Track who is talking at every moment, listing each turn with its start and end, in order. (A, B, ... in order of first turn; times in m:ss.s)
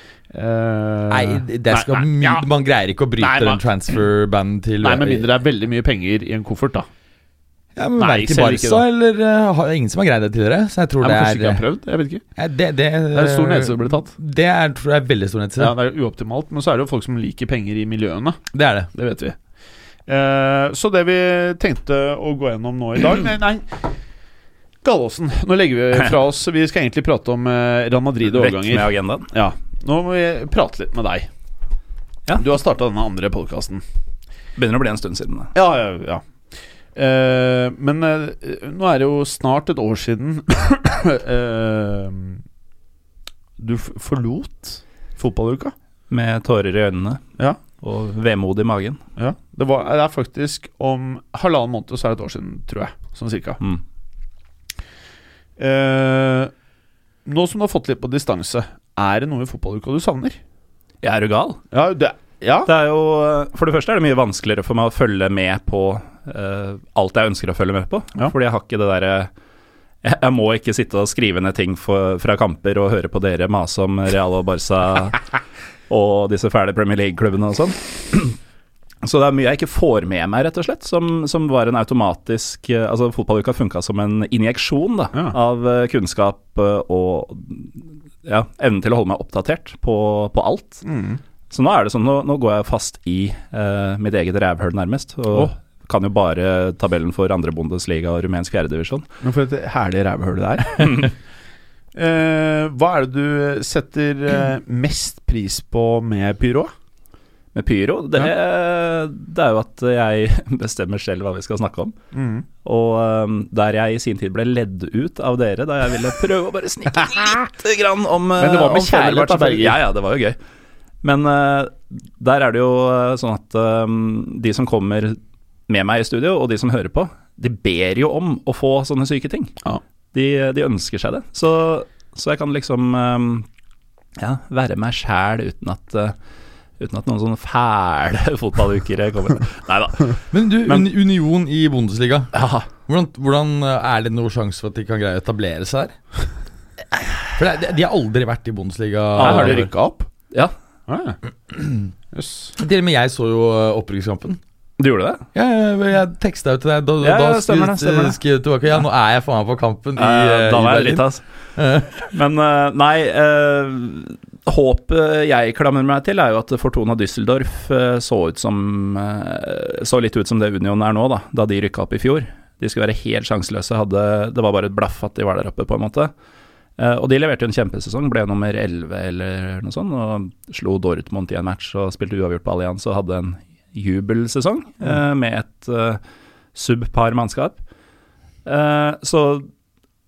0:00.3-0:02.5 A
0:01.1-0:05.2 B
0:03.2-0:03.6 A
0:04.8-0:06.9 A
0:07.8-0:11.6 B
0:08.0-0:08.8 A
0:11.0-0:12.2 A
0:12.4-0:15.7 B
0:13.1-0:14.1 A
0:15.6-0:18.4 A
0:18.5-0:18.9 B
0:18.9-0:19.4 A
0:20.1-0:23.9 A
0:24.8-0:31.3 A
0:28.2-0:29.3 C
0:32.3-0:33.8 A
0:34.6-0:35.5 C
0:35.5-0:36.2 A
0:37.0-0:42.4 A
0:43.6-0:45.7 A
0:46.1-0:47.2 C
0:47.8-0:49.0 C
0:49.2-0:53.6 A
0:55.6-0:56.5 A
0:57.3-1:00.4 A
1:01.0-1:01.6 C
1:01.7-1:02.7 A
1:02.6-1:09.3 C
1:10.0-1:15.2 C
1:15.9-1:18.4 C
1:19.0-1:30.8 C
1:30.8-1:31.2 A
1:31.5-1:39.1 C
1:39.2-1:41.1 A
1:42.0-1:46.7 A
1:47.5-1:52.0 C
1:52.1-1:52.5 A
1:52.6-2:00.4 C
1:58.4-1:59.8 A
2:01.0-2:09.6 C
2:10.1-2:13.5 C
2:14.2-2:16.2 C
2:16.8-2:20.1 C
2:20.3-2:22.3 B
2:22.3-2:22.7 C
2:22.9-2:26.0 B
2:27.3-2:29.7 B
2:29.2-2:29.7 C
2:29.2-2:30.1 A
2:30.9-2:31.2 A
2:31.5-2:31.9 B
2:32.1-2:32.5 A
2:32.6-2:34.4 B
2:34.8-2:35.2 C
2:35.3-2:42.0 B
2:37.0-2:38.2 C
2:40.0-2:41.2 C
2:42.1-2:56.1 C
2:56.8-3:06.0 C
3:06.6-3:07.6 C
3:08.4-3:09.5 C